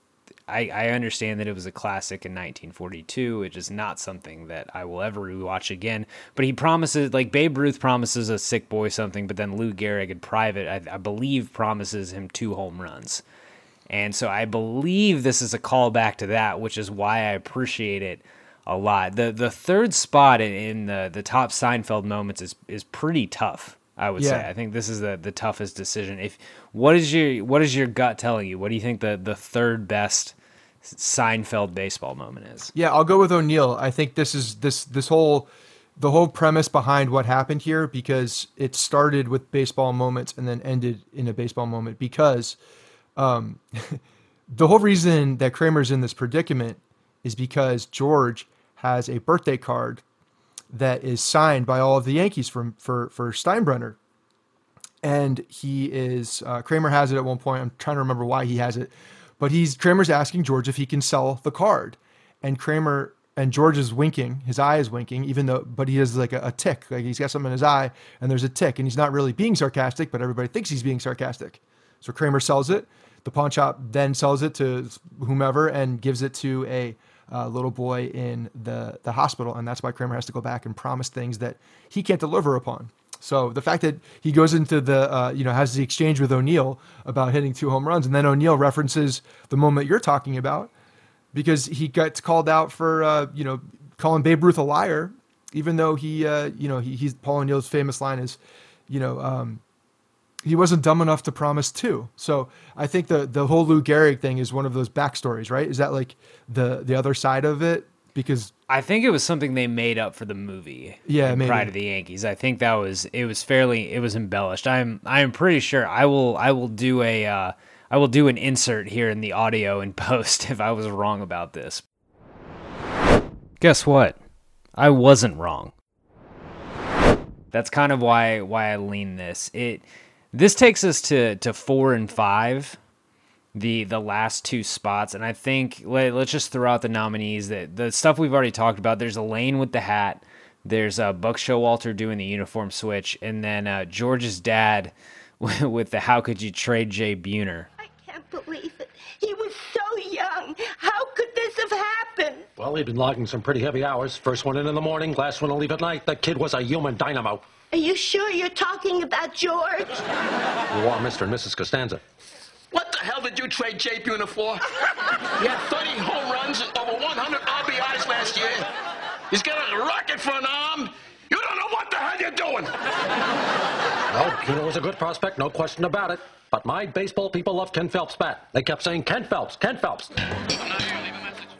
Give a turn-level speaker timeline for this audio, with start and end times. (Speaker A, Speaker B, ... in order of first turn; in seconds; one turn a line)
Speaker A: 0.5-13.2
Speaker A: 13.9-32.7
Speaker B: 24.2-24.5
Speaker B: 32.7-42.5
Speaker B: 43.1-50.0
Speaker B: 50.7-54.0
Speaker B: 55.0-90.7
Speaker B: 91.3-99.6
Speaker B: 100.4-108.5
Speaker A: 108.7-121.8
Speaker B: 111.0-111.7
Speaker A: 123.6-124.2
Speaker A: 124.8-125.7
Speaker A: 127.5-132.8
Speaker A: 133.5-147.7
Speaker C: 147.8-152.5
Speaker D: 152.6-157.5
Speaker C: 157.7-160.1
Speaker D: 160.7-162.0
Speaker E: 162.7-164.7
Speaker E: 165.4-168.6
Speaker E: 169.3-172.7
Speaker D: 174.1-180.1